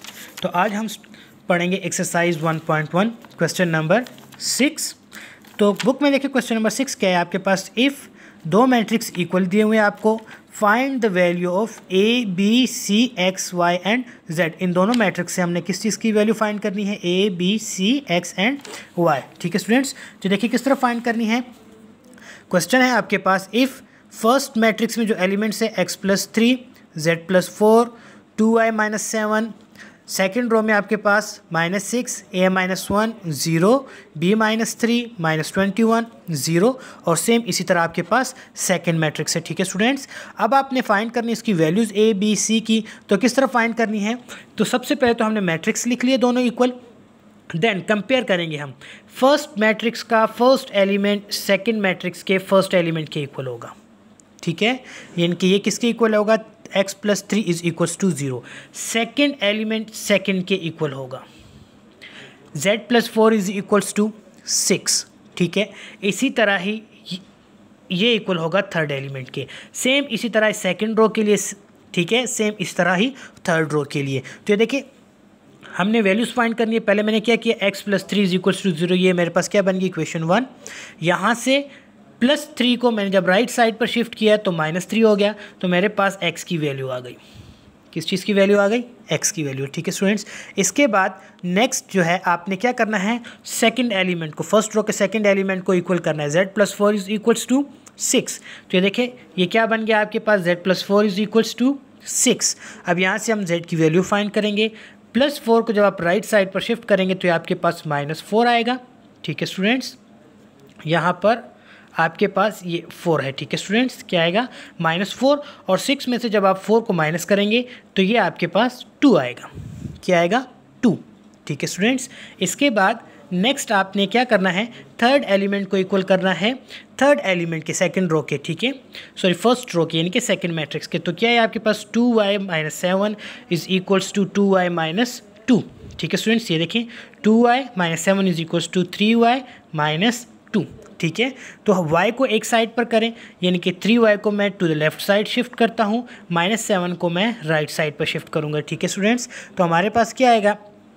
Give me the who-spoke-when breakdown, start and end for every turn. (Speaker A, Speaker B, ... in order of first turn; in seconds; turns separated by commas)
Speaker A: 0.4-5.0, Speaker A: 5.6-21.4, Speaker A: 22.5-29.5, Speaker A: 30.1-46.7, Speaker A: 47.5-53.7, Speaker A: 54.4-61.2, Speaker A: 62.5-67.2, Speaker A: 67.9-74.8, Speaker A: 75.7-80.5, Speaker A: 81.0-81.7, Speaker A: 82.2-87.2, Speaker A: 87.9-110.0, Speaker A: 110.8-111.4, Speaker A: 112.0-150.6